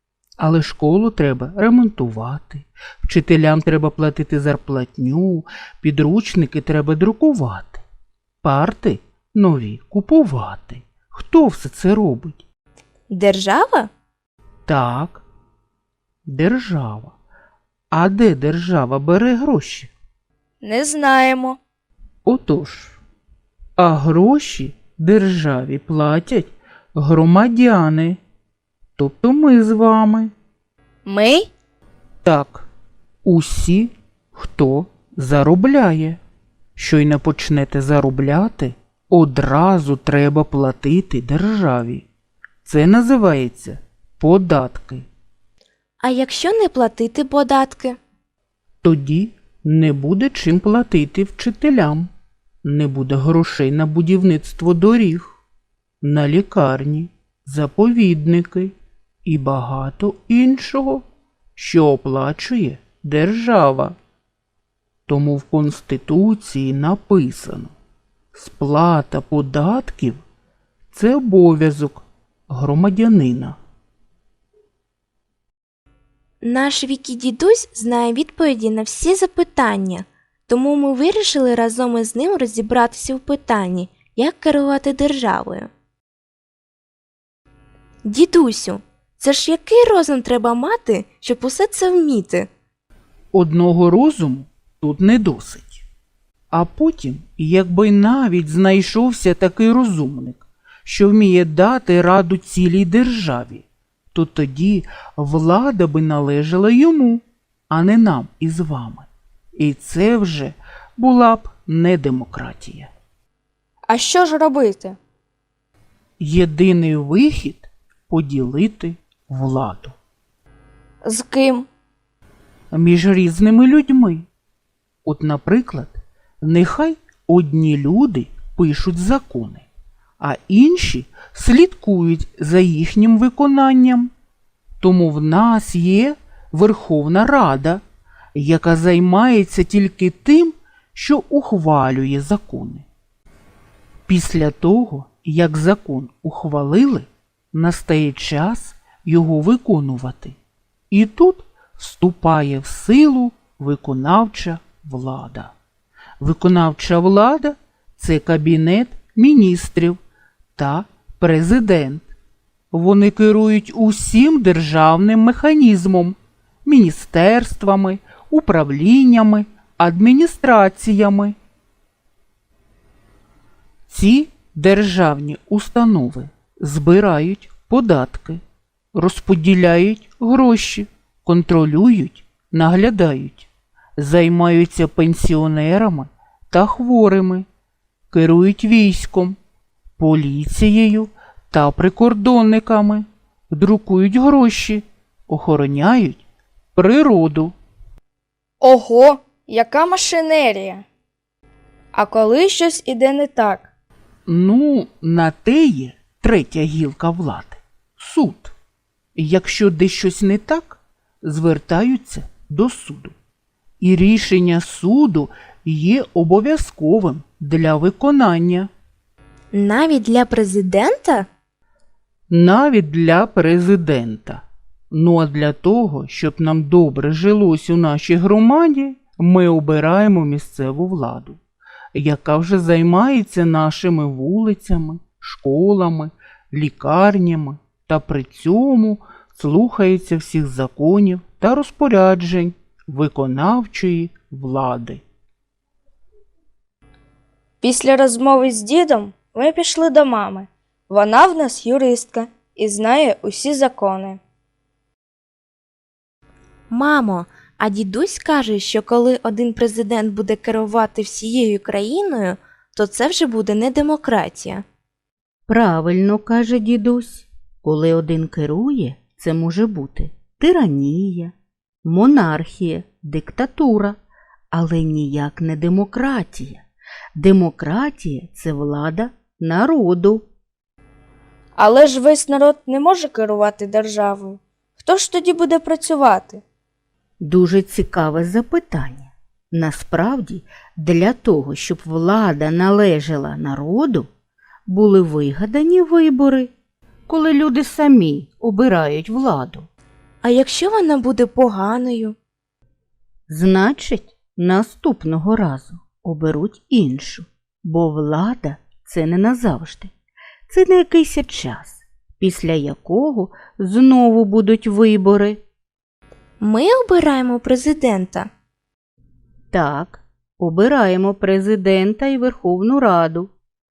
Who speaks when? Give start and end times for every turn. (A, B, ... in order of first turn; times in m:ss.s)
0:00.4-0:07.8 A
0:08.4-0:12.4 A
0:13.1-0:13.9 B
0:14.7-0:15.2 A
0:16.3-0:17.1 A
0:17.9-0:19.9 A
0:20.6-0:21.6 C
0:22.2-0:23.0 A
0:23.8-0:28.2 A
0:29.0-0:30.3 A
0:31.0-0:31.5 C
0:32.2-0:32.6 A
0:33.2-0:36.2 A
0:36.8-0:42.0 A
0:42.6-0:45.0 A
0:46.0-0:48.0 B
0:48.8-0:52.1 A
0:52.6-0:55.3 A
0:56.0-0:58.7 A
0:59.2-1:01.0 A
1:01.6-1:04.0 A
1:05.1-1:07.7 A
1:08.3-1:10.2 A
1:10.9-1:13.6 A
1:16.4-1:25.7 B
1:28.0-1:32.5 B
1:33.3-1:35.8 A
1:36.5-1:52.9 A
1:53.9-1:55.0 C
1:56.2-1:59.9 A
2:01.0-2:01.7 C
2:02.7-2:04.2 A
2:05.0-2:09.6 A
2:10.2-2:14.1 A
2:14.8-2:17.8 A
2:18.3-2:22.8 A
2:24.1-2:30.4 A
2:30.9-2:35.5 A
2:36.2-2:40.0 A
2:40.6-2:42.1 A
2:42.7-2:51.3 A
2:53.9-2:58.4 A
2:58.9-3:07.4 A
3:08.1-3:09.4 A
3:10.0-3:16.2 A
3:16.7-3:17.5 A
3:18.6-3:20.8 C
3:21.9-3:23.7 C
3:24.3-3:28.5 A
3:29.2-3:33.1 A
3:33.8-3:38.7 A
3:39.5-3:41.3 B
3:42.3-3:51.4 A
3:51.9-4:05.0 A
4:07.6-4:14.2 C
4:16.7-4:24.6 B
4:25.5-4:34.0 D
4:34.5-4:36.6 D
4:37.1-4:40.2 D
4:41.6-4:46.4 C
4:47.2-4:54.1 D
4:54.7-4:56.5 D
4:57.1-4:59.7 D
5:00.2-5:02.1 B
5:03.3-5:09.9 D
5:10.5-5:15.4 D
5:16.4-5:18.3 B
5:19.5-5:23.3 D